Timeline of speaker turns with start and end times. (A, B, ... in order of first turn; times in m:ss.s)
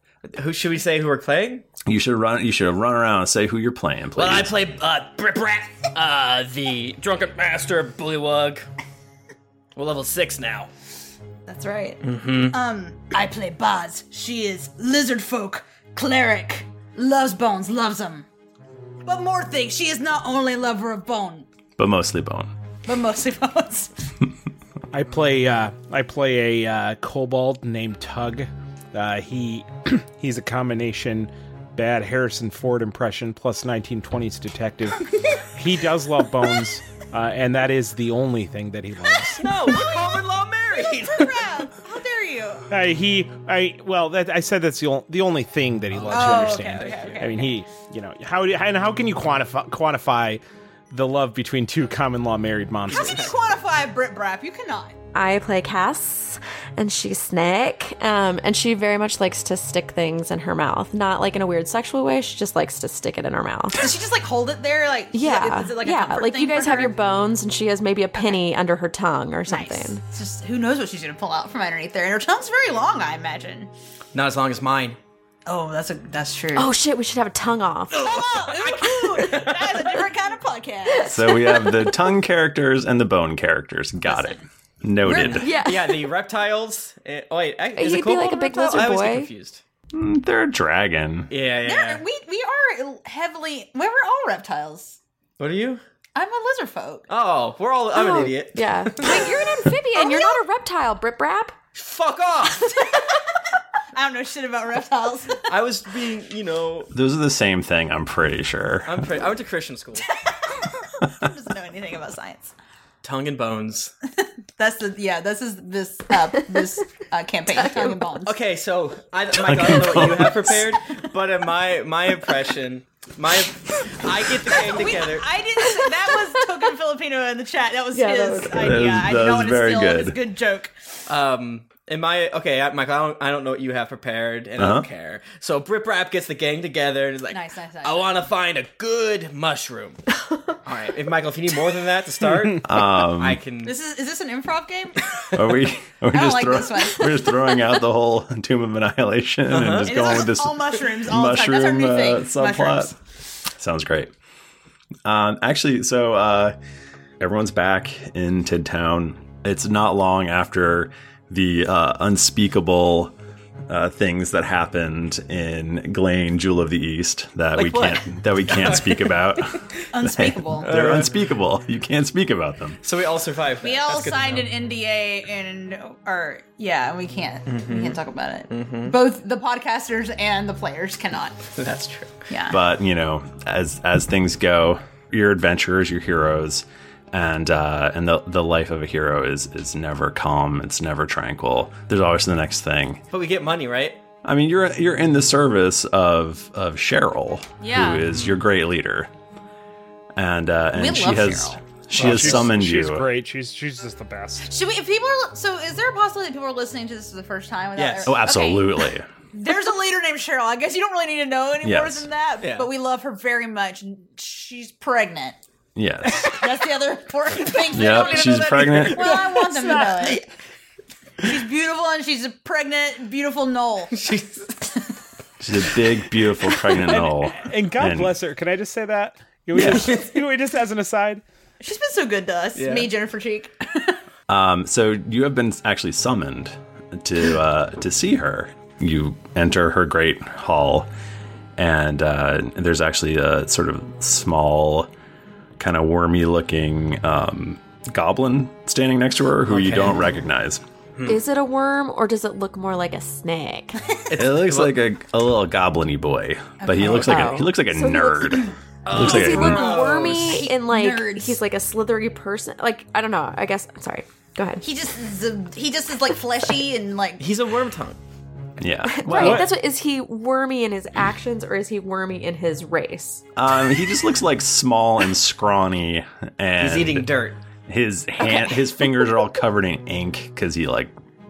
0:00.3-0:01.6 A
0:01.9-0:04.5 B
0:04.1-0:08.6 A
0:09.7-0:10.7 A
0:11.5-0:18.2 C
0:12.0-0:12.6 A
0:19.0-0:21.5 C
0:21.8-0:22.5 B
0:22.8-0:23.9 C
0:24.9-0:35.0 D
0:35.5-0:39.6 D
0:39.4-0:41.4 A
0:39.6-0:42.6 C
0:42.7-0:53.3 D
0:45.9-0:47.3 A
0:46.1-0:47.5 C
0:52.9-0:54.9 C
0:52.9-0:53.3 A
0:55.1-1:03.8 E
1:03.8-1:07.0 C
1:05.1-1:10.0 E
1:08.2-1:08.4 C
1:09.5-1:13.7 C
1:14.1-1:15.0 A
1:15.4-1:16.7 C
1:16.6-1:18.0 E
1:17.9-1:20.1 A
1:18.0-1:21.3 C
1:21.1-1:25.6 B
1:21.1-1:21.8 E
1:24.0-1:24.4 C
1:25.1-1:25.4 C
1:25.1-1:29.6 A
1:25.3-1:26.1 E
1:27.8-1:29.3 E
1:29.9-1:31.3 B
1:31.3-1:32.0 A
1:31.6-1:35.0 C
1:35.4-1:35.8 A
1:36.1-1:37.1 C
1:37.1-1:39.3 A
1:37.9-1:41.6 E
1:39.0-1:39.4 C
1:39.9-1:40.4 C
1:41.7-1:42.7 A
1:42.4-1:43.0 C
1:43.9-1:45.4 C
1:45.5-1:46.9 A
1:46.9-1:49.1 B
1:48.8-1:50.1 A
1:50.1-1:52.5 C
1:53.0-1:53.9 A
1:54.6-1:58.3 C
1:57.6-1:58.0 E
1:58.2-2:05.2 A
1:59.4-2:00.5 B
2:04.6-2:10.7 C
2:07.9-2:08.7 E
2:08.4-2:10.2 B
2:11.1-2:20.0 A
2:14.6-2:14.9 B
2:17.3-2:18.2 C
2:20.6-2:23.7 A
2:22.6-2:23.4 B
2:23.6-2:25.0 C
2:25.3-2:32.9 B
2:26.1-2:27.3 C
2:29.5-2:30.2 A
2:29.8-2:32.9 C
2:33.6-2:34.1 B
2:35.0-2:36.5 B
2:37.2-2:43.1 B
2:43.7-2:52.8 B
2:47.5-2:49.6 A
2:49.9-2:50.7 C
2:50.6-2:51.2 A
2:52.8-2:54.5 A
2:53.6-3:01.4 C
2:57.4-2:58.0 A
2:58.5-2:59.0 A
3:01.5-3:02.3 A
3:02.3-3:02.6 C
3:02.5-3:13.0 B
3:13.1-3:14.0 A
3:14.2-3:19.1 B
3:17.6-3:18.0 C
3:20.2-3:23.1 B
3:20.7-3:21.6 C
3:21.9-3:24.5 D
3:24.4-3:35.4 C
3:27.8-3:28.2 A
3:28.0-3:29.1 B
3:31.6-3:32.0 B
3:32.4-3:32.7 A
3:35.7-3:36.3 B
3:36.3-3:40.2 C
3:37.7-3:39.2 B
3:38.4-3:40.0 D
3:41.2-3:44.0 C
3:43.9-3:44.6 A
3:45.4-3:48.2 B
3:46.8-3:51.2 D
3:49.5-3:50.0 B
3:49.7-3:50.0 A
3:51.6-3:54.0 C
3:52.5-3:52.9 A
3:54.3-4:00.9 B
4:01.6-4:04.9 B
4:05.6-4:10.6 B
4:09.4-4:10.1 A
4:11.0-4:13.8 E
4:14.1-4:14.7 A
4:14.2-4:19.8 B
4:16.6-4:17.5 C
4:17.0-4:24.6 E
4:18.8-4:20.4 A
4:19.1-4:21.4 C
4:24.6-4:27.2 C
4:27.2-4:28.0 A
4:28.6-4:29.5 B
4:28.9-4:33.2 E
4:29.2-4:29.4 D
4:33.4-4:37.1 B
4:36.6-4:37.4 A
4:37.7-4:40.9 B